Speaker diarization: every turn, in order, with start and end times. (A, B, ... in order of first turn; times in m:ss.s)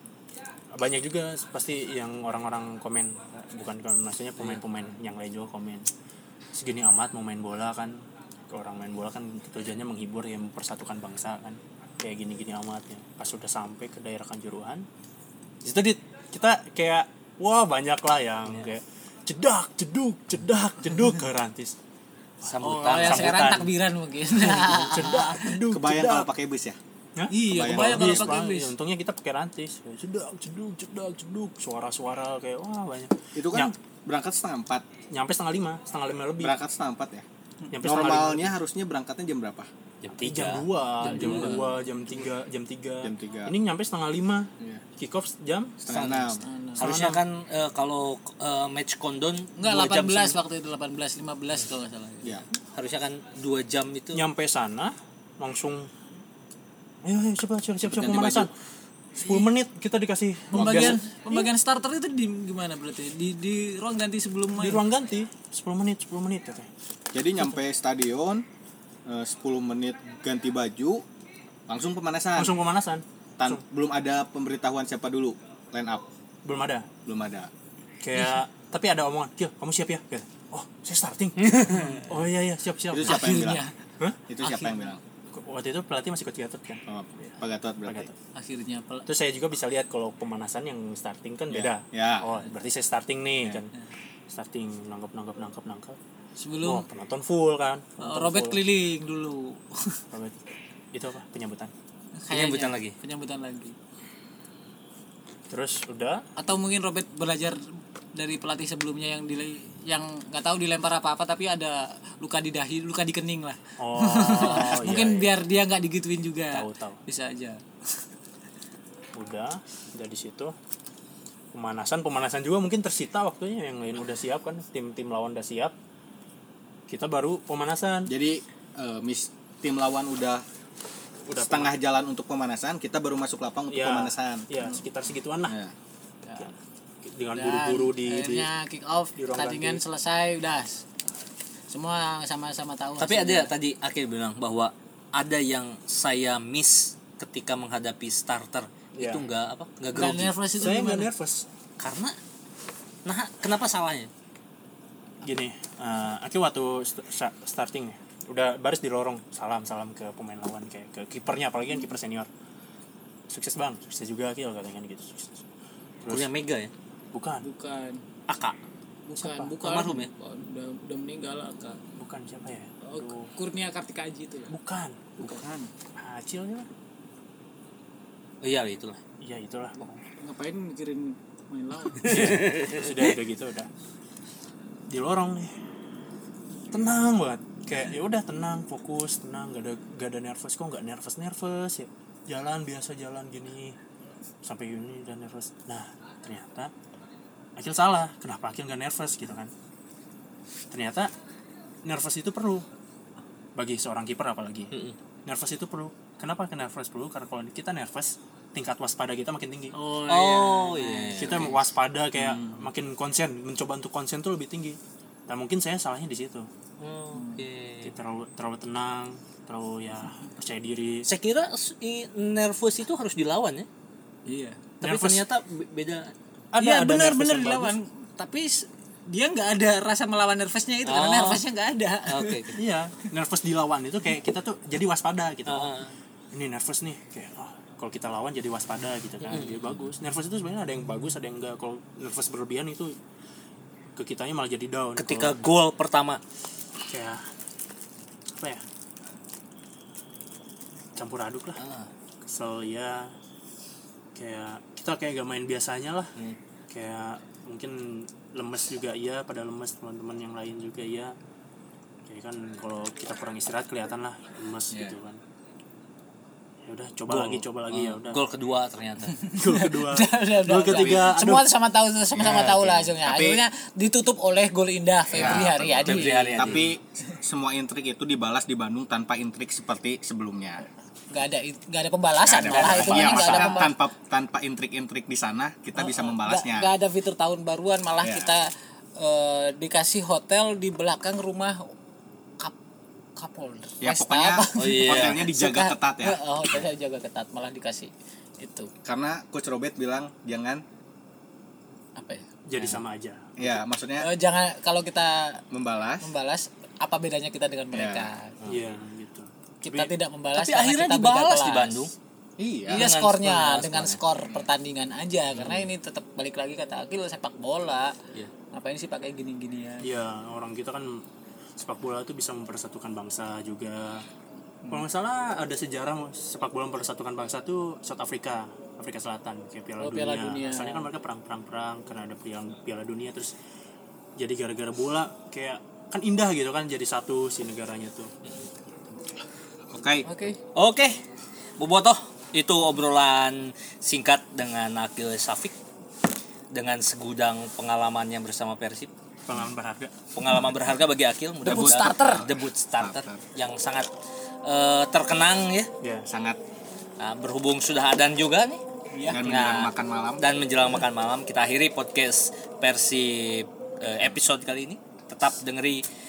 0:00.7-0:05.9 A
0:06.5-0:14.8 A
0:15.6-0:21.8 A
0:22.4-0:23.7 A
0:22.4-0:23.6 B
0:22.6-0:25.6 C
0:24.3-0:26.3 A
0:25.7-0:26.8 D
0:27.2-0:33.7 A
0:27.3-0:28.7 C
0:27.5-0:28.4 D
0:33.3-0:34.9 D
0:35.1-0:36.5 A
0:36.4-0:37.2 D
0:37.7-0:38.6 A
0:37.8-0:39.7 D
0:40.0-0:41.6 B
0:40.2-0:45.8 A
0:41.0-0:41.7 C
0:43.0-0:43.5 D
0:45.8-0:46.4 D
0:45.9-0:50.4 B
0:46.4-0:46.8 C
0:46.8-0:47.2 A
0:49.6-0:52.5 C
0:52.7-0:54.2 B
0:54.1-0:55.9 A
0:57.0-0:58.5 A
0:57.8-0:58.5 D
0:59.2-1:01.5 A
1:00.5-1:04.8 C
1:00.5-1:01.0 D
1:04.6-1:06.7 A
1:07.1-1:08.4 D
1:09.0-1:11.0 D
1:11.7-1:12.6 D
1:12.4-1:13.6 A
1:13.4-1:16.0 D
1:16.4-1:16.9 A
1:17.0-1:17.5 D
1:18.0-1:23.4 A
1:21.4-1:21.9 B
1:21.7-1:22.1 C
1:22.9-1:23.6 D
1:23.0-1:23.7 C
1:24.3-1:25.0 D
1:24.4-1:24.9 C
1:25.3-1:26.8 A
1:26.8-1:28.1 D
1:27.8-1:28.1 A
1:28.3-1:29.1 C
1:29.0-1:33.7 A
1:31.5-1:32.3 D
1:34.3-1:36.0 A
1:36.4-1:36.9 C
1:36.6-1:38.6 A
1:38.0-1:40.0 C
1:40.1-1:40.4 A
1:40.9-1:41.7 A
1:42.2-1:43.7 C
1:42.3-1:42.9 B
1:45.5-1:46.2 A
1:46.4-1:47.6 C
1:48.1-1:57.6 C
1:53.8-1:55.3 A
1:56.5-1:57.0 A
1:59.1-2:00.5 A
2:01.5-2:05.7 A
2:06.9-2:08.1 A
2:08.1-2:10.4 D
2:11.3-2:11.7 A
2:11.4-2:14.5 D
2:13.7-2:15.6 A
2:15.4-2:15.7 D
2:16.2-2:16.5 C
2:16.4-2:18.5 A
2:17.3-2:20.8 C
2:19.2-2:19.8 A
2:21.7-2:23.5 C
2:23.0-2:30.3 B
2:29.0-2:29.2 A
2:29.9-2:31.1 C
2:30.1-2:31.5 A
2:31.8-2:32.2 B
2:33.0-2:34.1 B
2:35.2-2:42.3 A
2:43.3-2:45.4 A
2:46.0-2:46.3 A
2:46.1-2:46.7 B
2:47.1-2:47.4 A
2:47.4-2:48.0 C
2:48.3-2:48.6 B
2:49.1-2:51.8 C
2:49.2-2:49.5 A
2:49.6-2:50.1 B
2:51.9-2:53.3 A
2:52.8-2:54.5 C
2:54.5-2:55.3 A
2:55.2-2:55.7 C
2:56.0-2:56.7 A
2:58.4-2:59.0 B
2:59.2-3:00.0 A
3:00.2-3:02.3 C
3:02.0-3:03.1 B
3:02.0-3:03.7 A
3:04.9-3:05.5 A
3:06.7-3:13.8 A
3:14.4-3:16.7 A
3:17.6-3:19.5 A
3:20.7-3:21.1 A
3:21.8-3:22.6 A
3:23.6-3:29.7 A
3:24.7-3:25.0 B
3:29.7-3:31.5 C
3:30.0-3:31.6 B
3:31.2-3:36.5 A
3:32.1-3:32.7 C
3:36.8-3:37.9 B
3:37.1-3:37.4 C
3:37.8-3:41.0 A
3:41.0-3:43.7 B
3:44.2-3:44.6 C
3:44.8-3:45.2 A
3:44.8-3:46.1 B
3:46.5-3:47.8 A
3:46.6-3:52.5 C
3:50.8-3:51.4 B
3:52.0-3:52.6 B
3:52.5-3:55.7 A
3:55.4-3:55.9 B
3:56.3-4:03.0 A
3:59.2-3:59.8 B
4:04.0-4:05.5 A
4:05.0-4:06.2 B
4:06.9-4:07.2 A
4:08.4-4:08.6 A
4:10.9-4:11.6 A
4:11.6-4:11.9 B
4:12.2-4:13.1 A
4:14.1-4:16.1 A
4:16.7-4:21.1 A
4:22.0-4:25.2 A
4:26.6-4:28.2 A
4:27.1-4:29.2 B
4:29.2-4:36.6 C
4:29.3-4:31.5 A
4:30.6-4:31.0 D
4:32.2-4:32.8 B
4:33.0-4:33.4 D
4:35.1-4:40.6 D
4:35.2-4:36.7 B
4:41.1-4:43.7 C
4:42.2-4:46.7 D
4:42.4-4:43.7 B
4:45.8-4:51.7 C
4:48.0-4:48.3 D
4:53.2-4:58.7 C
4:53.8-4:56.2 D
4:54.6-4:55.2 B
4:58.8-5:00.6 D
5:02.0-5:02.3 C
5:02.4-5:03.6 A
5:02.6-5:02.8 B
5:03.4-5:04.1 D
5:04.0-5:05.4 C
5:05.5-5:06.1 D
5:06.0-5:08.4 C
5:07.7-5:08.1 D
5:08.4-5:08.7 B
5:08.4-5:09.9 A
5:09.6-5:11.8 C
5:10.3-5:11.9 B
5:12.4-5:12.9 D
5:12.7-5:18.0 C
5:12.7-5:14.0 B
5:15.3-5:15.7 B
5:18.5-5:19.9 C
5:19.8-5:21.0 A
5:21.6-5:24.1 A
5:24.7-5:33.3 A
5:29.8-5:30.9 C
5:34.2-5:38.1 A
5:39.7-5:40.1 D
5:40.0-5:40.4 C
5:40.5-5:41.0 B
5:41.6-5:45.5 B
5:46.5-5:48.9 B
5:49.3-5:50.5 A
5:50.1-5:53.9 B
5:51.4-5:52.2 C
5:51.4-5:53.2 D
5:54.4-5:55.7 B
5:55.8-5:56.1 A
5:56.1-5:56.4 D
5:57.0-5:58.6 B
5:58.9-5:59.3 C
5:59.1-6:00.3 D
5:59.2-6:05.8 B